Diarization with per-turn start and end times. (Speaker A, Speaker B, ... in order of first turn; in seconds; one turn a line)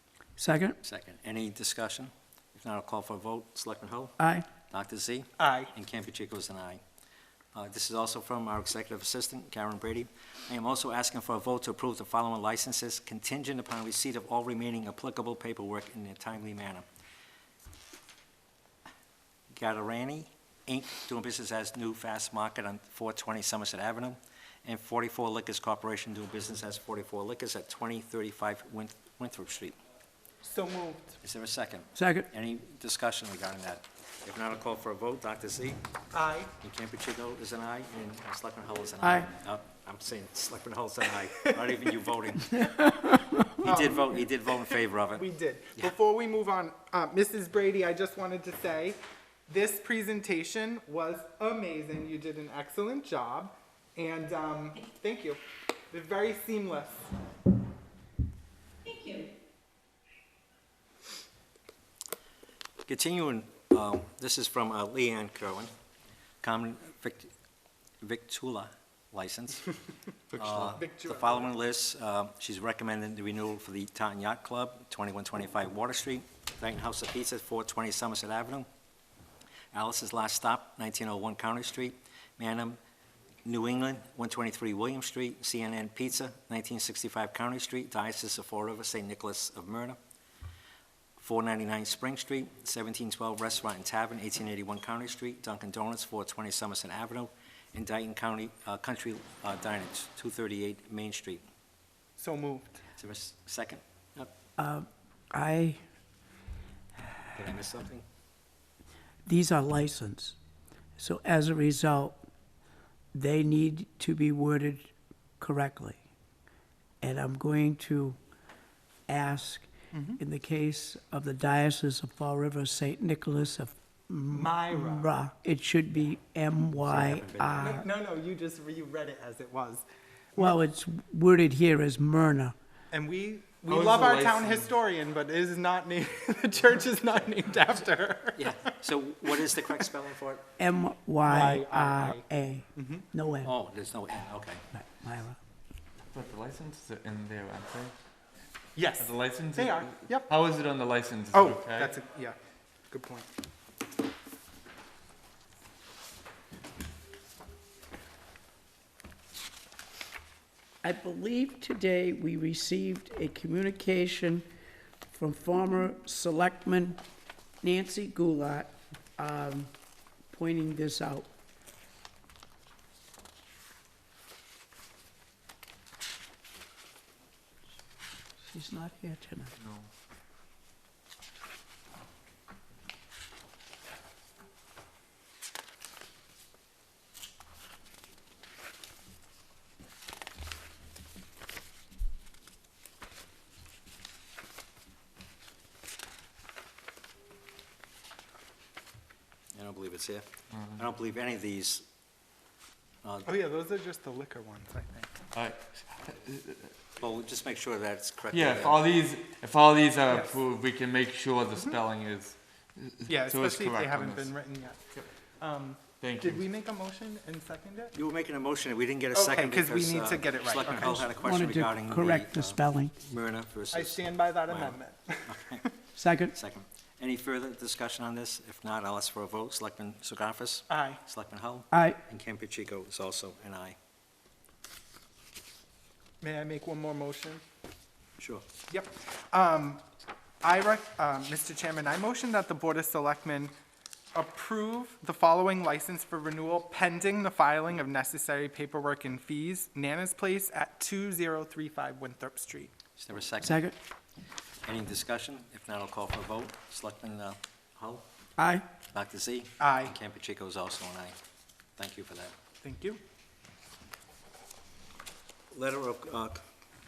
Speaker A: 0.4-0.8
Speaker B: 0.8-4.2
Speaker A: 4.2-4.5
Speaker B: 4.7-6.8
Speaker C: 5.4-5.7
Speaker B: 7.5-16.8
Speaker B: 19.5-29.7
Speaker C: 30.4-31.1
Speaker B: 31.2-35.8
Speaker A: 31.9-32.3
Speaker C: 36.1-36.5
Speaker B: 36.6-42.7
Speaker A: 39.0-39.3
Speaker C: 41.4-41.9
Speaker B: 43.6-45.2
Speaker C: 43.6-44.5
Speaker C: 45.1-57.1
Speaker B: 62.9-65.7
Speaker B: 66.4-67.3
Speaker B: 68.0-69.7
Speaker B: 70.3-78.7
Speaker D: 70.3-70.8
Speaker C: 70.7-71.5
Speaker B: 79.7-82.8
Speaker B: 83.4-90.0
Speaker B: 91.2-101.4
Speaker C: 102.2-102.8
Speaker B: 103.0-104.3
Speaker A: 104.6-105.8
Speaker B: 107.3-108.0
Speaker A: 109.2-110.4
Speaker A: 111.0-112.2
Speaker A: 113.1-116.0
Speaker A: 117.0-118.2
Speaker A: 119.1-127.8
Speaker C: 119.9-120.2
Speaker C: 124.3-125.1
Speaker B: 126.8-127.8
Speaker C: 127.6-130.6
Speaker A: 130.3-132.5
Speaker C: 132.9-138.7
Speaker D: 133.7-134.7
Speaker B: 138.3-140.5
Speaker A: 140.6-143.5
Speaker C: 141.2-143.1
Speaker B: 143.4-144.6
Speaker A: 144.7-145.4
Speaker D: 146.1-147.9
Speaker C: 148.7-150.3
Speaker D: 149.0-151.9
Speaker C: 151.3-152.4
Speaker C: 152.9-153.3
Speaker A: 160.8-164.5
Speaker A: 165.1-167.0
Speaker A: 167.6-169.7
Speaker A: 170.3-171.3
Speaker A: 178.5-179.5
Speaker D: 179.6-179.9
Speaker B: 199.5-201.8
Speaker D: 200.5-200.8
Speaker B: 203.0-203.3
Speaker C: 203.2-205.1
Speaker D: 205.3-206.7
Speaker B: 207.0-208.8
Speaker D: 208.3-214.3
Speaker C: 210.1-210.3
Speaker C: 213.1-214.8
Speaker C: 215.4-217.9
Speaker D: 216.0-216.4
Speaker B: 217.9-225.6
Speaker C: 219.1-221.1
Speaker A: 221.2-222.9
Speaker C: 223.7-225.7
Speaker A: 225.9-226.3
Speaker B: 226.3-233.8
Speaker C: 230.7-231.0
Speaker A: 231.7-232.0
Speaker C: 236.2-237.4
Speaker B: 238.2-238.4
Speaker C: 238.7-239.8
Speaker C: 240.4-243.5
Speaker C: 244.1-252.7
Speaker B: 253.0-253.6
Speaker A: 253.4-253.7
Speaker B: 254.7-258.0
Speaker A: 258.4-258.6
Speaker B: 258.9-261.1
Speaker C: 259.6-259.9
Speaker B: 261.8-262.3
Speaker C: 262.6-263.0
Speaker B: 265.5-266.4